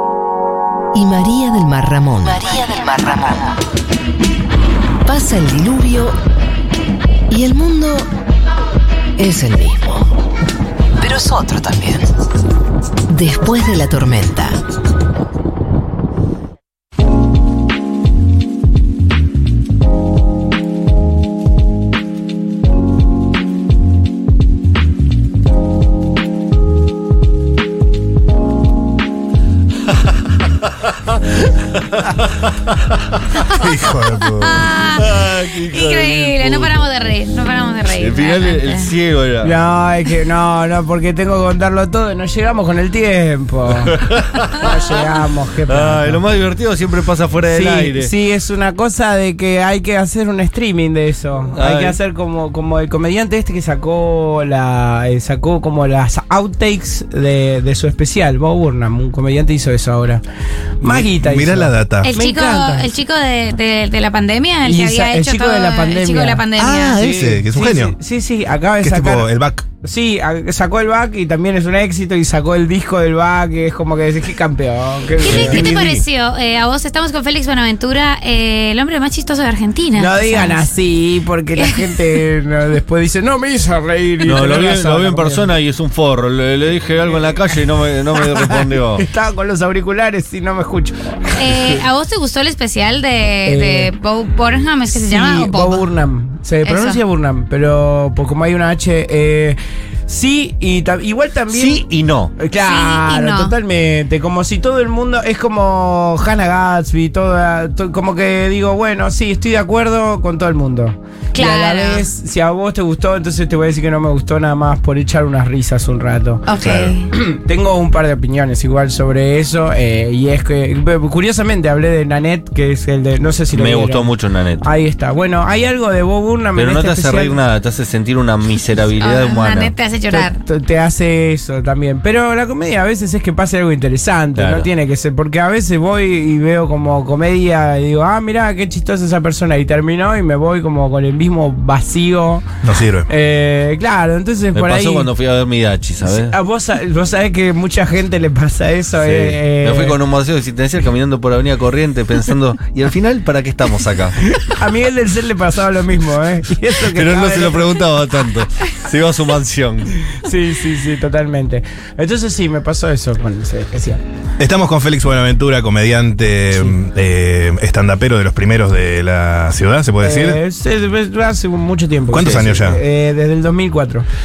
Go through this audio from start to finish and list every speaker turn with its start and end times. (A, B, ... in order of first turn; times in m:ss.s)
0:00.9-0:03.4 A
0:05.0-0:06.2 A
0:07.3-0:08.1 A
0:09.2-0:10.1 A
0:11.0-0:12.1 A
0:13.1-0:14.6 A
0:33.5-0:34.7 B
0:34.0-0:38.9 C
0:34.9-0:36.8 D
0:37.9-0:39.6 D
0:39.4-0:44.0 E
0:43.9-0:44.5 D
0:44.5-0:46.2 E
0:45.7-0:48.1 D
0:47.5-1:00.2 E
0:51.5-0:52.0 D
1:00.8-1:03.0 E
1:00.8-1:02.1 B
1:02.0-1:07.0 C
1:04.6-1:06.4 E
1:06.6-1:08.0 B
1:07.0-1:09.3 E
1:08.8-1:09.6 B
1:09.8-1:15.9 E
1:15.2-1:16.0 B
1:15.2-1:20.7 C
1:19.9-1:25.5 E
1:21.6-1:21.9 C
1:24.2-1:29.0 D
1:27.1-1:27.6 E
1:28.2-1:31.2 E
1:31.3-1:35.8 C
1:33.4-1:33.9 E
1:34.9-1:41.8 E
1:36.6-1:37.0 C
1:41.5-1:42.3 D
1:42.4-2:07.4 E
1:42.6-1:43.6 C
1:51.3-1:52.0 C
1:56.4-1:57.1 C
2:03.5-2:04.6 D
2:06.6-2:09.8 D
2:09.0-2:10.4 C
2:10.1-2:22.5 E
2:14.3-2:14.7 D
2:22.6-2:23.1 B
2:23.1-2:25.1 E
2:24.6-2:26.3 D
2:26.0-2:30.0 E
2:29.0-2:34.2 D
2:34.4-2:37.8 E
2:36.8-2:40.1 D
2:40.2-2:44.0 E
2:44.4-2:50.4 B
2:50.0-2:54.1 E
2:52.1-2:52.8 B